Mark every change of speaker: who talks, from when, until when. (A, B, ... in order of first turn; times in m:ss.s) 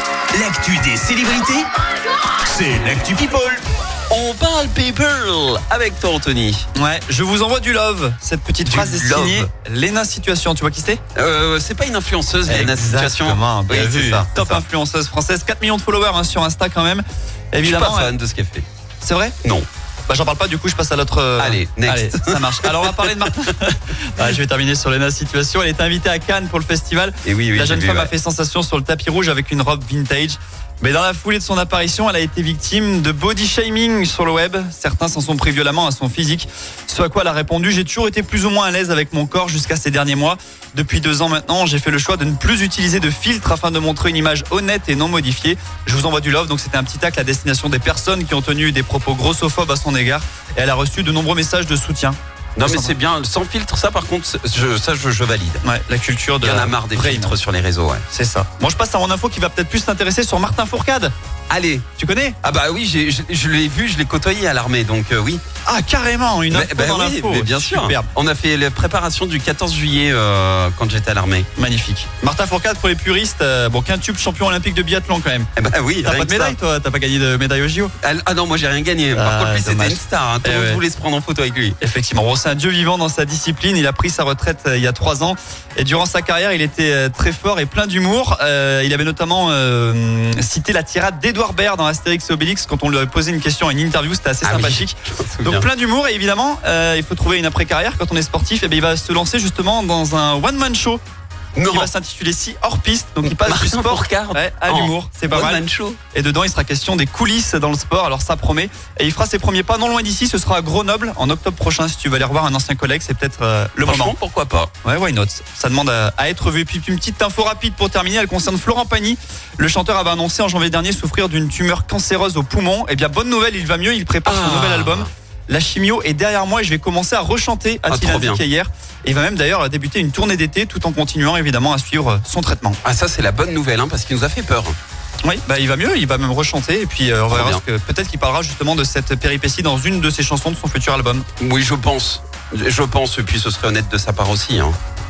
0:00.3-0:01.7 A
0:02.4-0:03.6 A
0:04.1-0:06.6 B
0:06.8-0:11.0 C
0:08.6-0:09.5 B
0:11.2-0:14.6 B
0:12.5-0:18.1 C
0:17.6-0:18.7 B
0:19.0-0:19.4 C
0:20.1-0:53.0 C
0:21.4-0:23.5 B
0:27.2-0:28.1 B
0:52.6-0:55.6 B
0:55.6-0:57.4 C
0:56.4-0:58.0 B
0:58.1-1:01.1 C
1:01.5-1:01.9 B
1:02.0-1:02.4 C
1:02.4-1:05.4 B
1:05.7-1:08.1 C
1:06.5-1:11.5 B
1:11.6-1:15.5 C
1:15.6-1:16.6 B
1:16.0-1:17.9 C
1:18.0-1:21.8 B
1:19.1-1:20.8 C
1:21.8-1:41.0 C
1:34.4-1:35.7 B
1:41.6-1:41.9 B
1:41.7-1:45.6 C
1:43.2-1:46.0 B
1:46.1-1:54.2 C
1:53.8-1:54.7 B
1:54.8-2:12.8 C
2:04.2-2:05.1 B
2:07.9-2:08.4 B
2:12.8-2:14.8 B
2:15.2-2:21.3 C
2:17.3-2:17.6 B
2:21.4-2:24.8 B